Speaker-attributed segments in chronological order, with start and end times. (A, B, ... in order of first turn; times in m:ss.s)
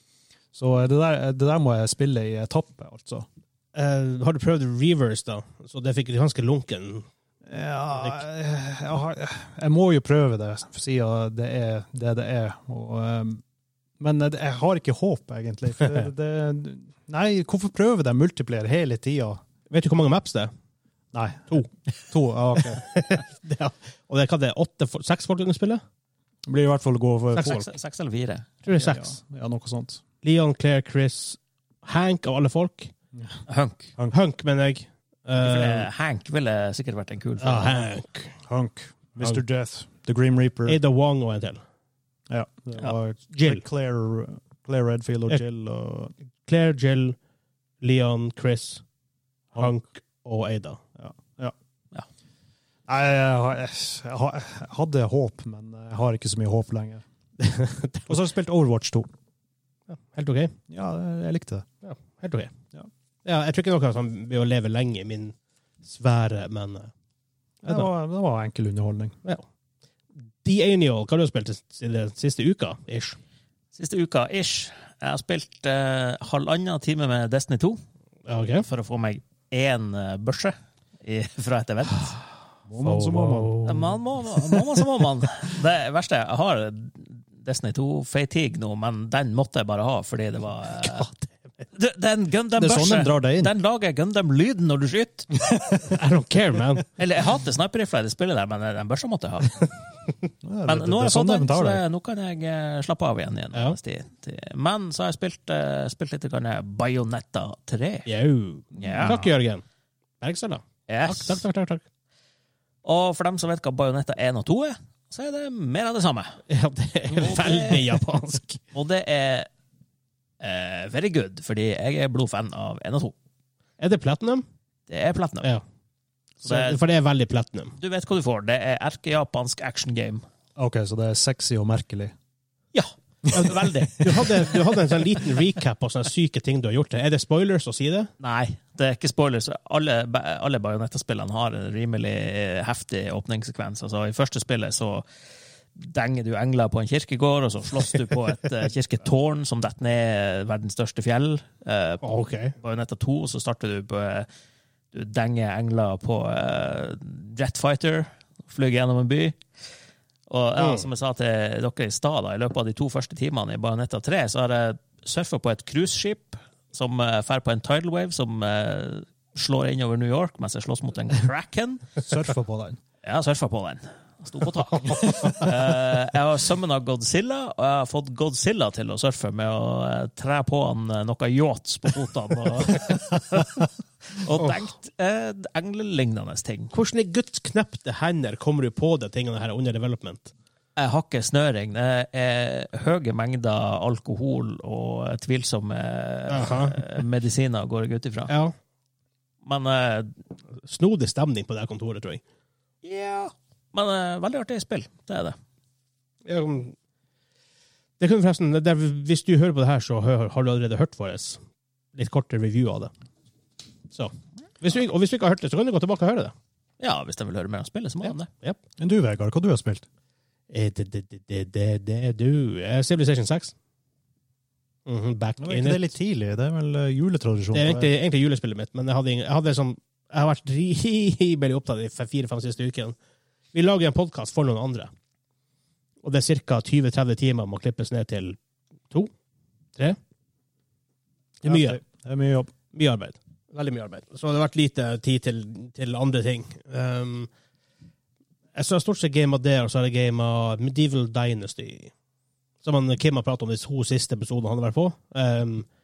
0:00.5-0:03.3 A
0:03.7-0:07.0 B
0:07.5-0:13.4 A
0:14.0-0:19.4 A
0:19.7-0:20.5 B
0:21.1-0:22.8 A
0:22.6-0:25.8 B
0:26.4-0:27.6 A
0:27.3-0:27.7 B
0:27.4-0:28.8 C
0:28.6-0:29.1 B
0:28.8-0:30.0 A
0:30.2-0:32.9 B
0:33.5-0:33.9 C
0:34.1-0:35.9 B
0:35.4-0:37.8 C
0:37.4-0:38.3 B
0:38.4-0:40.8 A
0:40.6-0:41.6 B
0:42.3-0:46.1 A
0:43.3-0:43.6 B
0:46.4-0:47.2 B
0:47.8-0:48.8 B
0:49.5-0:50.8 B
0:51.0-0:51.5 A
0:52.9-0:57.0 A
0:57.4-0:58.2 B
0:58.1-0:59.1 A
0:59.9-1:00.5 B
1:00.7-1:01.6 A
1:01.8-1:02.5 B
1:03.2-1:06.9 B
1:07.6-1:07.9 B
1:07.6-1:09.1 A
1:10.4-1:13.2 B
1:13.7-1:17.8 C
1:18.3-1:18.6 B
1:18.6-1:22.2 C
1:22.7-1:23.8 A
1:22.8-1:23.9 B
1:23.6-1:31.1 C
1:30.8-1:31.2 B
1:31.7-1:35.4 C
1:32.6-1:33.5 A
1:35.5-1:35.8 A
1:35.9-1:36.8 B
1:37.0-1:39.7 C
1:40.4-1:41.8 A
1:40.6-1:48.1 C
1:48.1-1:49.6 B
1:48.8-1:49.2 C
1:48.8-1:49.3 A
1:50.2-1:51.8 B
1:50.9-1:51.4 C
1:52.8-1:56.4 C
1:56.5-1:58.6 B
1:57.1-1:57.9 C
1:58.7-1:59.5 C
2:00.4-2:03.1 C
2:03.8-2:04.4 B
2:04.9-2:05.5 C
2:06.4-2:06.8 C
2:06.4-2:07.8 B
2:07.8-2:10.2 C
2:10.6-2:12.1 A
2:12.7-2:13.7 C
2:13.3-2:18.1 B
2:18.2-2:25.0 C
2:25.7-2:34.3 C
2:32.0-2:32.6 B
2:34.9-2:39.4 C
2:40.3-2:51.9 C
2:40.6-2:40.9 B
2:52.0-2:52.8 A
2:53.0-3:06.7 C
3:06.7-3:10.3 B
3:10.8-3:18.3 C
3:16.3-3:17.0 B
3:18.3-3:18.5 B
3:19.4-3:20.2 C
3:20.6-3:22.2 B
3:22.8-3:25.4 C
3:26.2-3:26.7 B
3:28.0-3:31.4 B
3:31.9-3:32.9 B
3:33.9-3:36.3 B
3:36.8-3:38.2 C
3:38.0-3:38.6 B
3:38.8-3:39.8 A
3:40.5-3:43.5 B
3:44.8-3:45.9 B
3:45.4-3:47.9 A
3:47.5-3:53.0 B
3:53.5-3:54.9 B
3:56.0-3:58.4 B
4:01.4-4:01.8 B
4:01.4-4:02.5 A
4:02.7-4:07.3 B
4:08.5-4:11.9 B
4:12.6-4:15.6 B